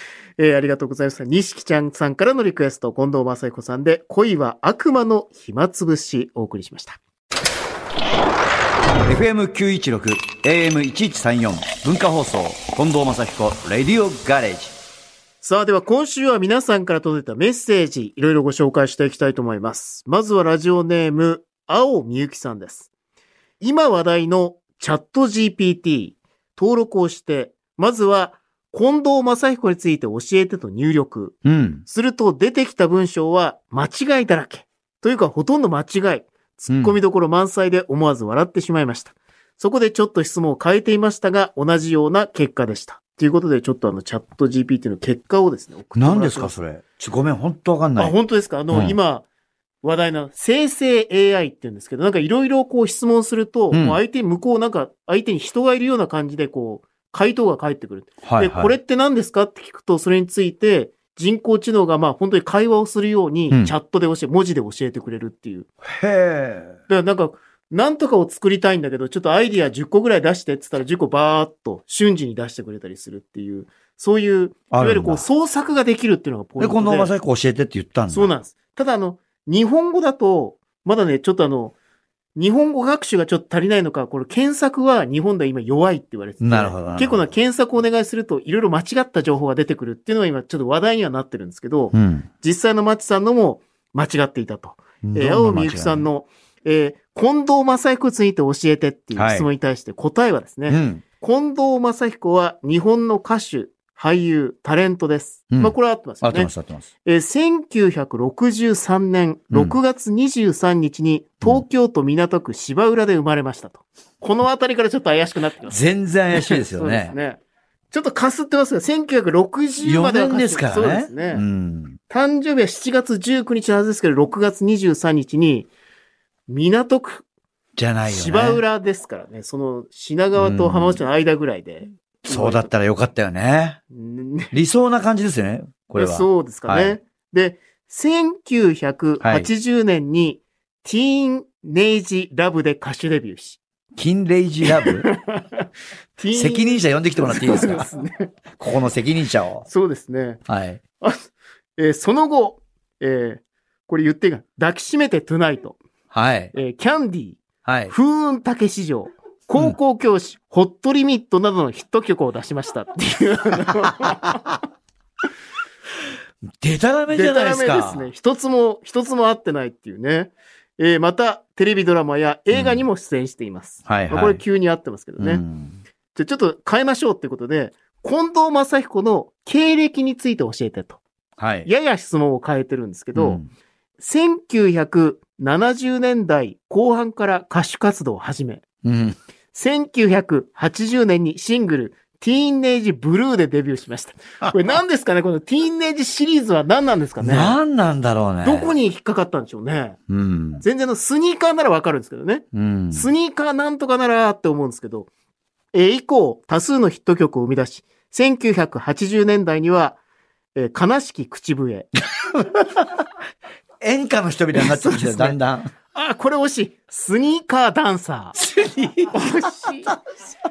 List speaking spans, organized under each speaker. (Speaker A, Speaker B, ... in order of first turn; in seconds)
Speaker A: 0.4-7.0, 15.4-22.9, 23.6-46.6, 48.0-49.2, 49.8-65.7, 66.9-77.1, 78.1-81.7, 82.3-106.5, 107.0-115.8, 116.3-121.4, 122.1-125.7, 126.5-127.2, 128.1-132.7, 133.9-134.5, 135.9-143.6, 144.6-145.7, 146.2-148.3, 149.6-150.4, 151.0-155.8, 156.5-164.6, 167.1-175.4, 176.1-181.0, 181.6-183.4, 184.0-188.6, 189.5-197.6, 198.4-200.0, 200.6-205.1, 205.7-210.0, 210.5-211.9, 214.5-215.4, 215.9-218.3, 219.1-219.9
Speaker B: 9.0-14.7, 31.4-31.8, 36.7-37.0, 45.9-48.1, 48.7-49.0, 53.7-54.0, 58.2-58.8, 65.9-66.8, 74.7-75.2, 76.6-78.3, 86.4-87.2, 91.9-92.3, 95.0-96.0, 99.1-99.5, 100.7-101.0, 105.5-106.9, 109.5-109.8, 115.7-117.1, 119.8-122.0, 127.8-128.6, 130.3-131.0, 132.3-133.8, 134.5-137.0, 139.2-139.5, 143.9-145.1, 146.3-147.9, 148.6-149.7, 150.5-150.8, 156.1-156.5, 157.6-157.9, 166.6-168.1, 172.5-172.8, 173.8-174.4, 175.2-175.8, 181.4-181.7, 183.1-183.5, 188.8-189.2, 197.2-198.7, 200.1-200.6, 202.5-203.1, 212.2-212.9, 213.8-215.7, 218.3-219.2